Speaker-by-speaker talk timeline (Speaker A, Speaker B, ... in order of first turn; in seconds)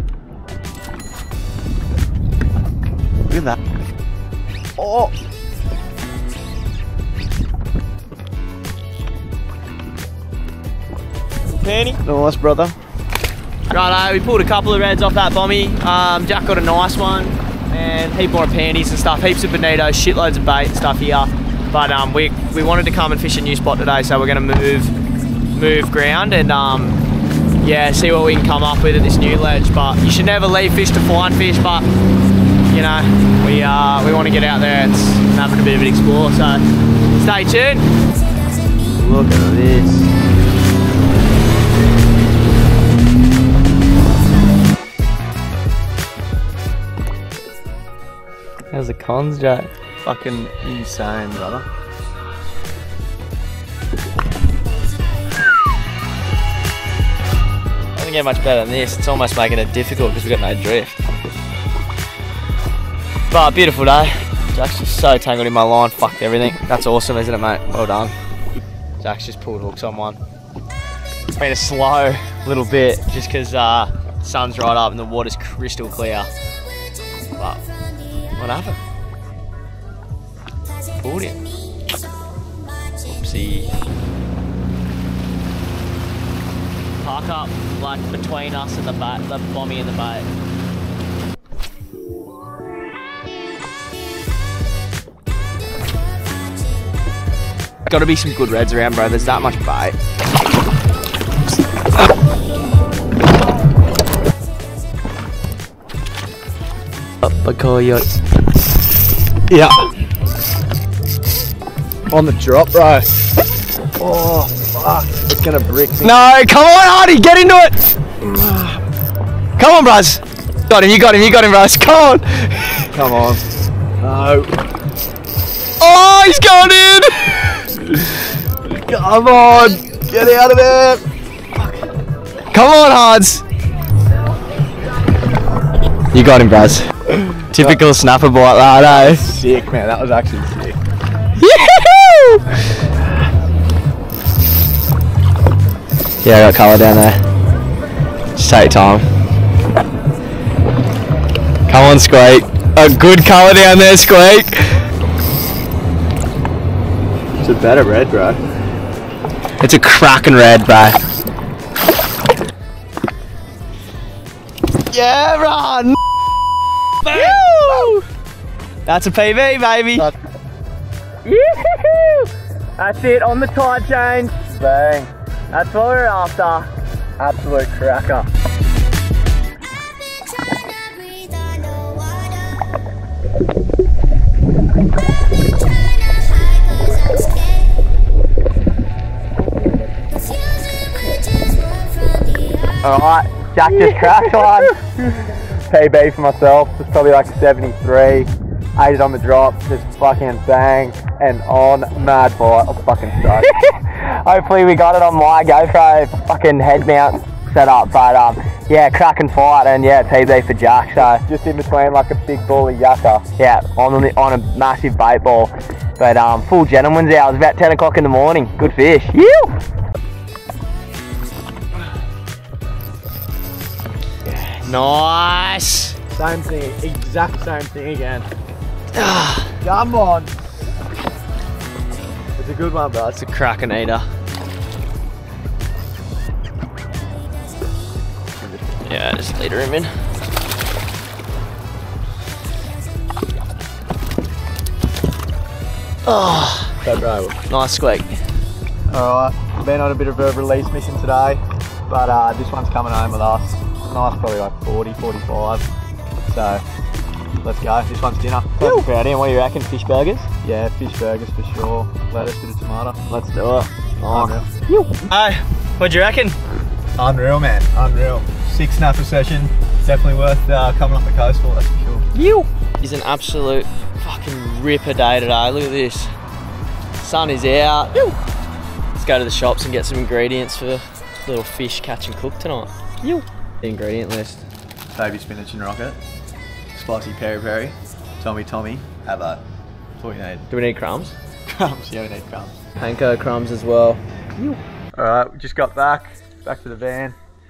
Speaker A: 4.8-5.1, 11.5-12.0, 13.7-24.9, 25.5-27.0, 27.6-31.9, 32.7-36.6, 37.1-37.9, 39.0-40.1, 48.7-49.7, 57.9-61.0, 63.3-68.1, 69.0-70.2, 71.4-76.3, 77.4-77.6, 78.4-78.8, 81.0-81.5, 83.0-83.8, 87.0-90.3, 97.9-100.0, 107.2-108.1, 116.0-117.8, 119.6-122.9, 125.8-127.6, 132.5-133.4, 136.1-139.2, 141.4-142.4, 146.2-147.2, 148.4-149.1, 151.7-154.8, 157.7-158.0, 159.6-161.0, 164.9-165.9, 167.0-168.0, 168.9-170.1, 171.2-174.5, 175.5-176.7, 192.8-194.8, 203.3-211.2, 213.4-219.6, 224.2-226.0, 228.9-229.6, 233.0-234.1, 238.9-239.9, 246.1-246.8, 247.5-248.2, 258.6-260.3, 263.1-266.4, 272.1-276.1, 277.0-278.2, 279.0-284.4, 290.5-291.1, 292.8-294.6
Speaker B: 12.1-12.8, 50.0-51.7, 112.1-113.1, 114.0-116.2, 118.2-118.8, 122.9-123.4, 124.0-124.6, 128.8-131.0, 137.5-137.8, 138.8-140.8, 157.4-158.4, 167.1-167.9, 174.5-175.1, 177.2-178.3, 193.3-203.5, 211.0-213.3, 226.1-228.3, 229.6-230.3, 232.4-233.2, 246.8-247.4, 248.9-255.6, 256.3-256.6, 257.4-258.9, 260.4-263.0, 264.0-264.5, 267.0-272.1, 284.9-286.0, 286.7-289.4, 290.0-290.5, 291.5-292.5, 295.0-297.1